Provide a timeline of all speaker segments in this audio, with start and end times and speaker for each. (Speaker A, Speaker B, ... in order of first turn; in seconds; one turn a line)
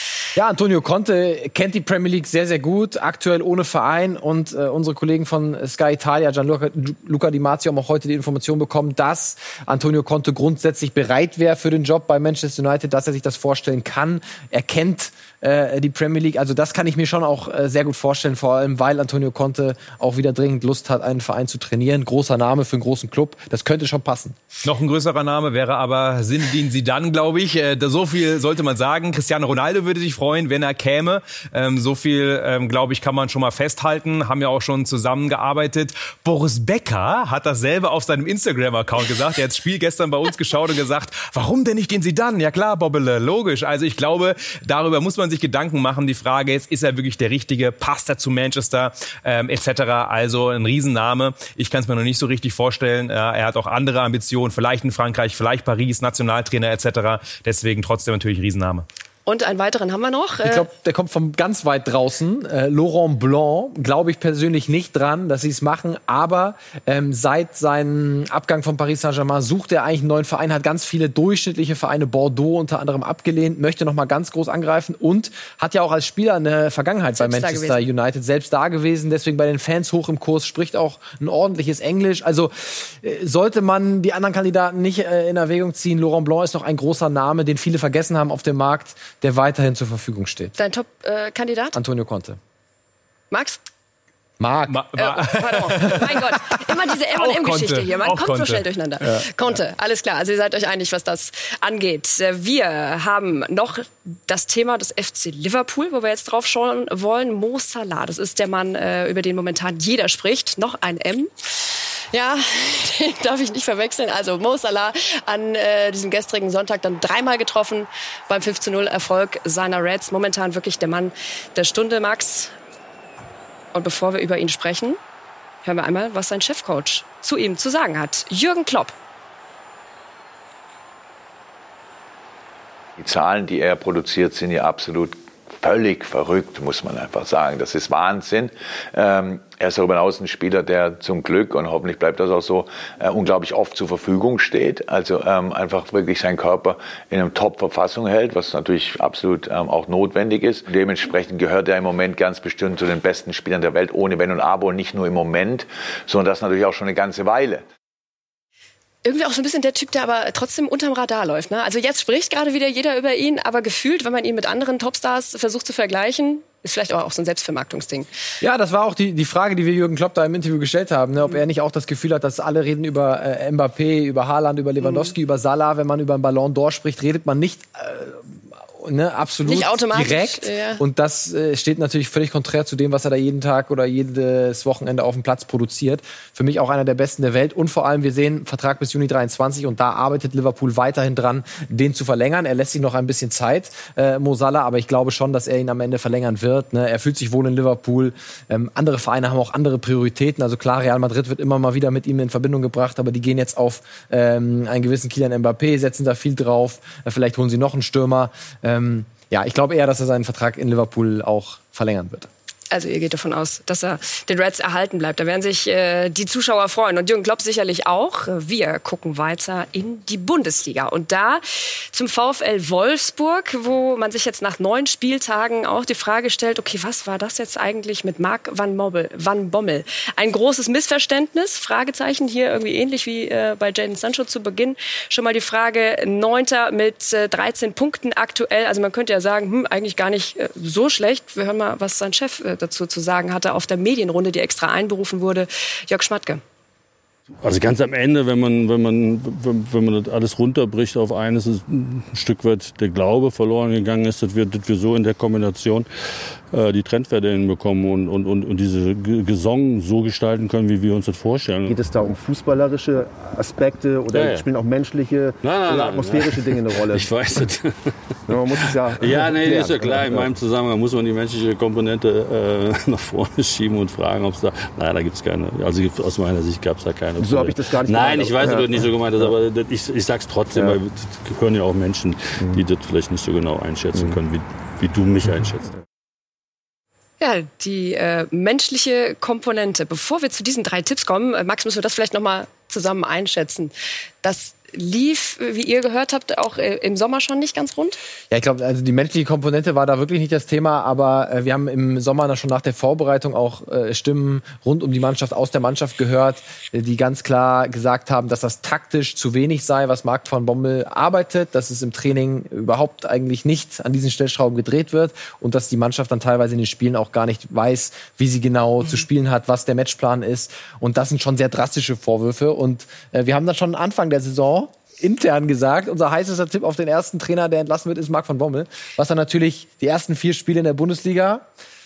Speaker A: 0.3-24.4
Speaker B: 24.6-58.8
Speaker C: 59.2-60.6
Speaker A: 60.4-90.5
Speaker C: 77.2-77.8
Speaker C: 90.5-91.8
Speaker A: 91.7-92.4
Speaker C: 93.3-93.6
Speaker A: 94.4-96.1
Speaker B: 94.7-96.5
Speaker C: 95.0-122.5
Speaker B: 97.1-98.7
Speaker C: 123.7-125.0
Speaker C: 125.6-128.9
Speaker D: 133.0-157.7
Speaker C: 159.0-168.1
Speaker A: 168.4-212.3
Speaker C: 174.8-175.1
Speaker C: 179.4-180.8
Speaker C: 212.7-246.4
Speaker E: 247.4-255.9
Speaker E: 256.5-261.8
Speaker F: 261.6-267.4
Speaker E: 264.1-264.5
Speaker E: 265.4-267.9
Speaker F: 268.3-270.3
Speaker E: 268.6-285.7
Speaker F: 277.2-279.3
Speaker F: 280.5-280.8
Speaker C: 287.2-298.0
Speaker A: 298.3-331.4